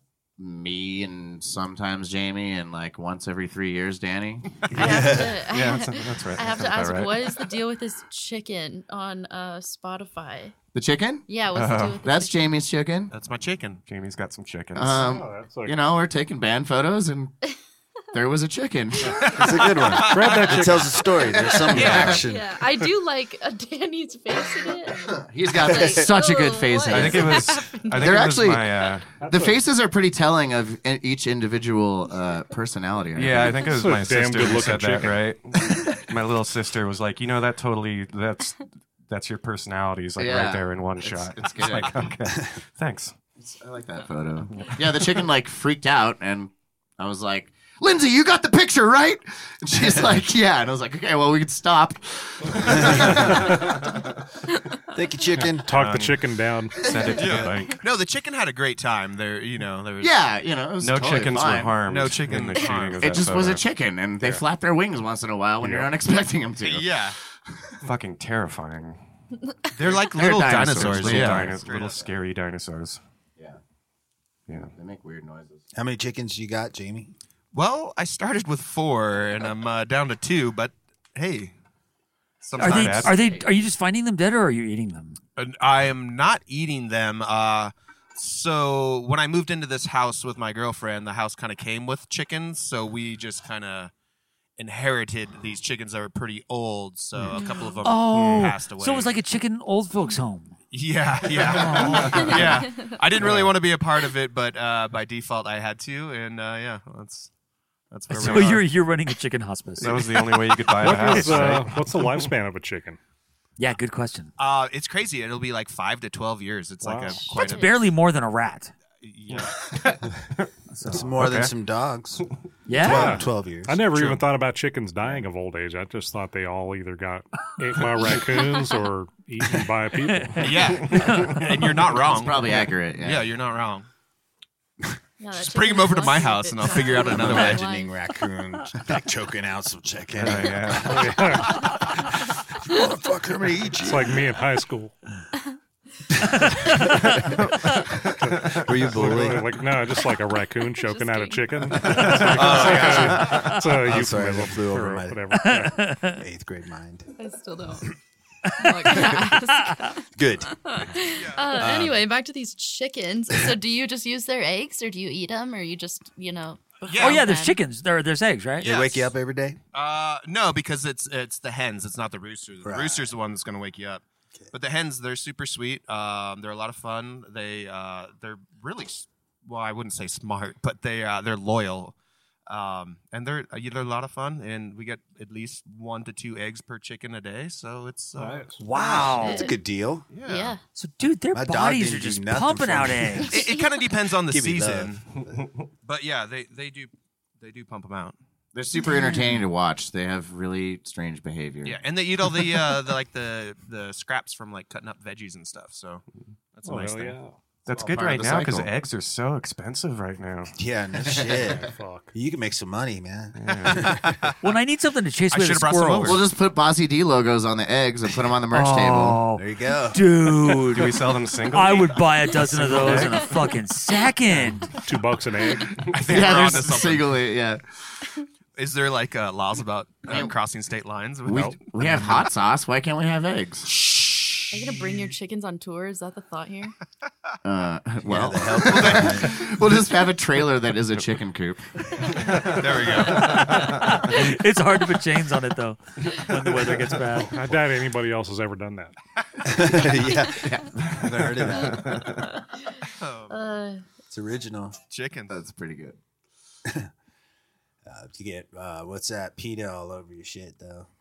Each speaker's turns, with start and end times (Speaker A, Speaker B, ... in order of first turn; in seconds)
Speaker A: 0.4-4.7, 10.7-11.3, 12.0-13.1, 14.8-17.4, 18.1-19.2, 21.6-22.2, 25.1-33.6, 40.2-42.1, 43.4-53.7, 60.0-61.8, 63.0-67.0, 71.0-71.5, 74.7-75.6, 132.0-133.3, 198.6-201.8, 207.7-208.7, 216.0-219.2, 226.1-227.6, 230.1-230.3, 231.3-233.9, 237.4-241.7, 250.4-250.7, 255.3-256.0
Speaker B: 4.7-7.5, 11.5-12.0, 13.9-15.1, 26.9-29.1, 33.1-43.1, 55.7-56.2, 56.8-57.8, 60.8-63.6, 67.8-69.0, 70.5-73.0, 74.5-74.7, 82.6-83.2, 101.7-103.6, 108.2-108.6, 109.8-112.3, 119.3-120.5, 121.1-121.5, 130.8-131.4, 140.2-141.2, 151.8-152.6, 195.2-195.6, 207.7-210.5, 213.3-213.9, 220.5-223.3, 225.9-226.7, 243.2-244.0, 251.0-252.3
Speaker C: 4.7-10.5, 11.3-12.4, 22.1-28.1, 97.3-97.9, 102.3-103.0, 117.2-117.8, 135.2-138.0, 150.8-151.8, 157.2-157.9, 158.6-160.0, 160.6-167.6, 189.1-189.5, 190.2-190.6, 193.4-193.7, 234.5-236.7, 253.3-253.8
Speaker D: 4.8-5.2, 19.3-22.5, 52.7-53.1, 54.9-55.7, 75.8-77.1, 120.9-123.8, 136.9-144.2, 146.3-147.2, 148.4-149.5, 152.1-155.5, 156.2-157.1, 160.2-160.6, 161.6-162.0, 168.6-169.6, 172.6-173.1, 188.7-190.1, 191.3-193.4, 194.3-194.9, 210.6-214.1, 219.4-220.0, 238.1-239.5, 249.4-252.1, 254.1-254.8, 257.9-260.9
Speaker E: 13.1-13.8, 19.1-20.8, 21.7-22.2, 57.1-60.2, 61.9-63.2, 66.6-67.2, 69.8-72.1, 77.5-81.5, 82.4-83.2, 85.4-93.9, 94.6-99.1, 100.7-107.3, 107.9-108.7, 114.4-117.8, 119.0-120.0, 123.9-124.2, 130.4-133.9, 135.3-137.6, 152.5-152.8, 161.2-161.7, 166.9-167.3, 168.6-169.1, 169.7-182.0, 182.5-188.5, 190.1-190.6, 193.3-195.1, 195.8-198.2, 201.7-207.2, 214.1-214.3, 215.3-216.2, 225.9-227.1, 228.6-231.6, 238.7-239.3, 242.3-243.7, 252.9-253.4, 254.9-255.4
Speaker F: 14.9-15.8, 20.0-20.9, 29.2-29.6, 33.7-35.3, 53.1-53.6, 55.5-56.8, 65.6-65.9, 110.7-113.0, 116.8-117.3, 122.8-130.8, 140.8-141.7, 143.8-145.0, 148.3-155.9, 188.2-188.6, 206.7-207.3, 211.3-212.1, 222.5-223.2, 224.8-225.9, 247.2-248.9
Speaker G: 70.2-71.4, 82.6-85.2, 97.8-100.5, 101.4-102.3, 108.1-110.2, 113.6-114.3, 117.4-118.7, 120.7-121.2, 122.7-123.2, 131.0-131.5, 155.4-156.2, 167.0-168.8, 188.6-189.4, 190.8-193.4, 198.9-199.4, 214.4-216.2, 218.5-221.0, 221.5-224.8, 243.1-247.4